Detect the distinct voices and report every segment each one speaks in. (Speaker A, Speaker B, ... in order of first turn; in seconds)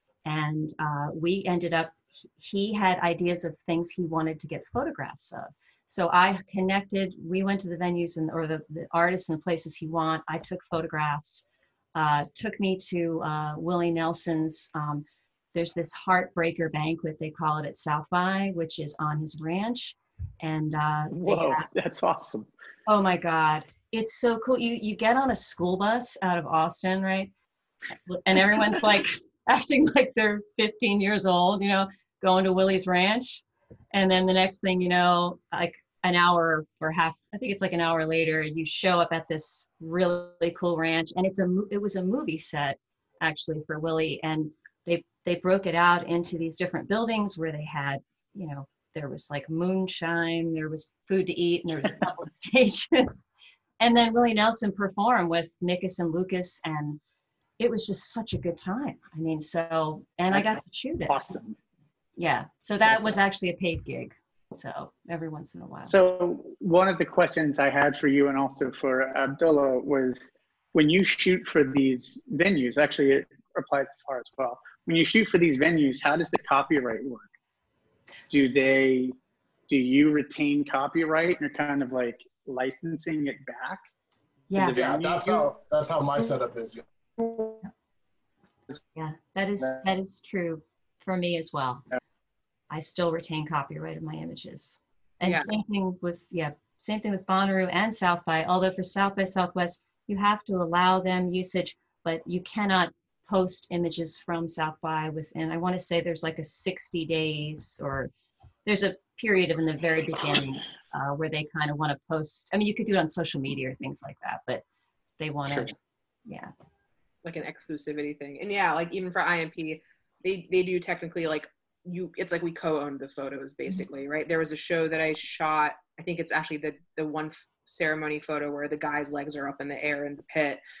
Speaker A: 0.2-21.7, 22.9-27.3, 28.1-53.3, 53.8-57.0, 57.6-61.4, 62.2-66.0, 84.5-85.1, 88.9-91.8, 92.7-108.1, 108.7-114.6, 115.2-115.7, 116.3-116.5
Speaker B: 21.1-22.5, 60.3-61.5, 62.9-63.2, 65.9-77.3, 78.3-79.1, 79.7-83.8, 84.5-85.5, 87.2-87.5
Speaker C: 84.7-86.8
Speaker D: 95.2-95.5, 117.2-130.6